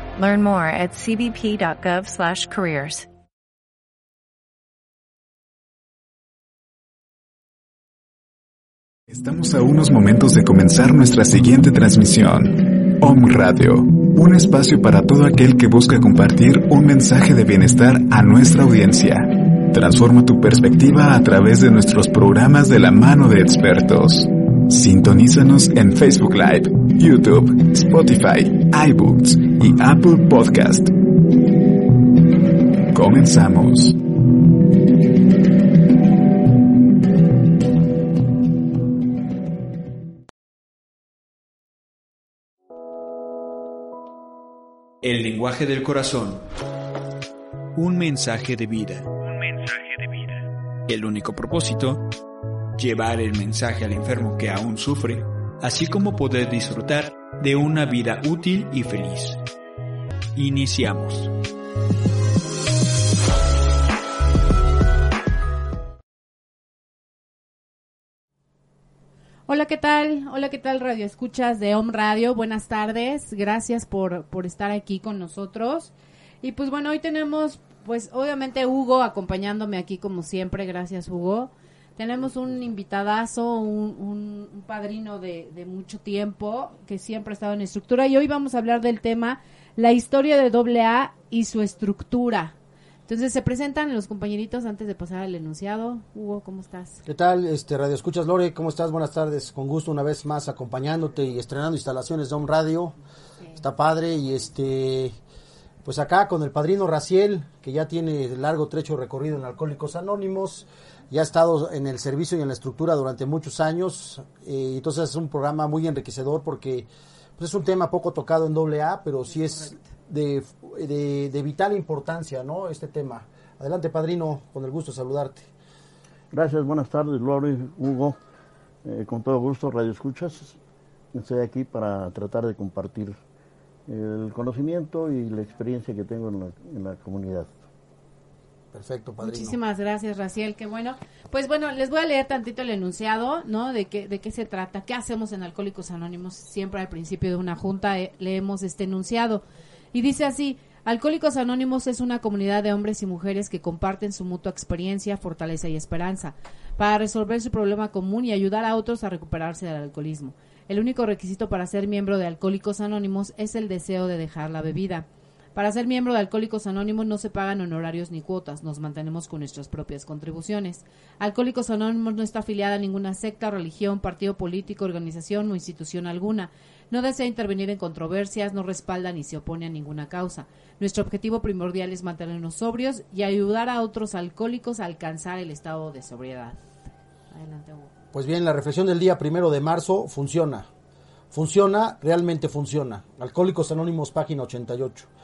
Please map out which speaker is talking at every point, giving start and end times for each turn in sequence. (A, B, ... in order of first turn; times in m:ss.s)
0:00.2-0:03.1 A
0:09.1-0:31.0 B
0:32.9-0:34.0 B
0:45.0-0:46.5 C
0:47.7-0:49.8 C
0:50.9-0:52.0 C
0:52.8-0:59.4 C
1:00.3-1:01.3 C
1:09.5-1:32.5 D
1:33.1-1:37.0 D
1:37.0-1:43.0 E
1:43.6-1:45.2 E
1:45.8-1:56.9 E
1:57.4-2:05.5 E
2:06.3-2:08.2 F
2:08.8-2:10.6 F
2:11.1-2:13.2 F
2:13.9-2:17.6 F
2:18.7-2:19.6 E
2:19.2-3:06.6 D
3:07.3-3:07.9 D
3:08.1-3:10.7 E
3:11.3-3:15.1 E